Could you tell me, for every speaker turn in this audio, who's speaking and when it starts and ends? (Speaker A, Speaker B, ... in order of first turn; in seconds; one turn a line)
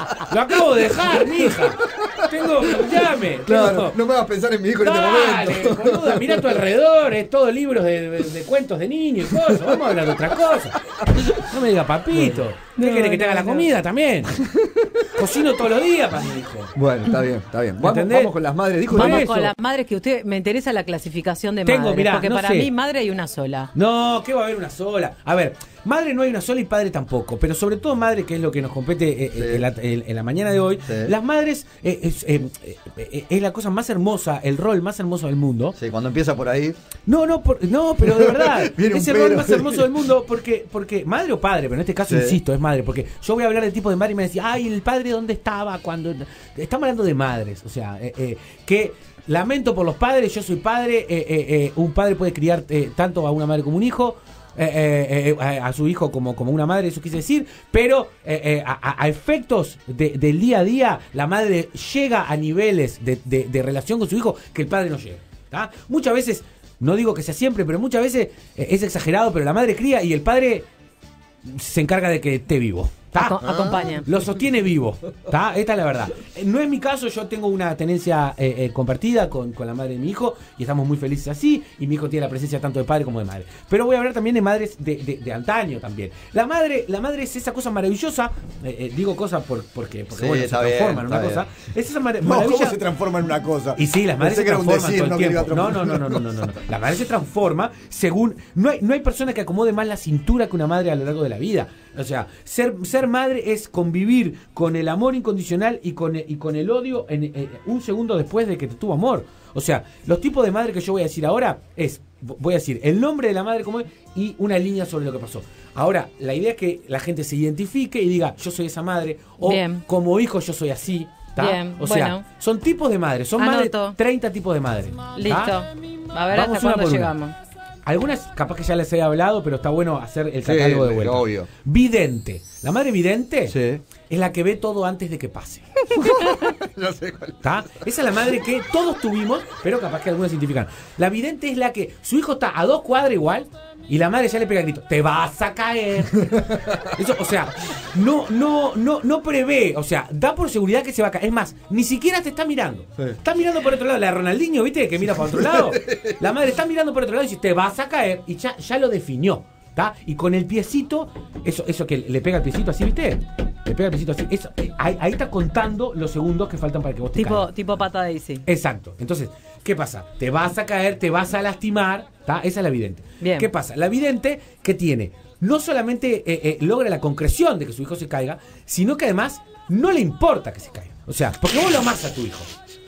Speaker A: 0.2-4.0
Speaker B: 1.2-6.6
Speaker A: 4.8-10.8
Speaker B: 9.3-10.0
Speaker B: 11.0-11.3
Speaker A: 11.3-14.4
Speaker B: 12.1-12.4
Speaker C: 12.8-13.7
Speaker B: 14.4-15.1
Speaker A: 15.2-16.8
Speaker B: 16.8-19.3
Speaker A: 17.8-18.3
Speaker A: 18.9-19.5
Speaker C: 18.9-23.7
Speaker A: 21.7-22.7
Speaker A: 23.7-35.8
Speaker B: 29.4-29.6
Speaker B: 30.9-31.1
Speaker B: 35.8-36.8
Speaker A: 37.1-70.7
Speaker B: 38.0-39.9
Speaker B: 42.1-42.4
Speaker A: 71.5-92.8
Speaker C: 73.2-74.1
Speaker B: 90.1-91.4
Speaker B: 92.2-96.5
Speaker A: 93.8-125.6
Speaker C: 119.4-119.8
Speaker C: 121.4-122.2
Speaker C: 123.4-124.0
Speaker C: 125.2-127.3
Speaker A: 126.3-127.1
Speaker A: 127.9-133.6
Speaker B: 130.4-131.5
Speaker B: 133.5-133.8
Speaker A: 134.1-135.8
Speaker B: 135.9-137.6
Speaker C: 136.1-136.4
Speaker A: 137.4-167.5
Speaker B: 146.4-146.8
Speaker B: 155.2-156.2
Speaker C: 167.2-168.4
Speaker A: 168.5-182.5
Speaker C: 173.2-173.5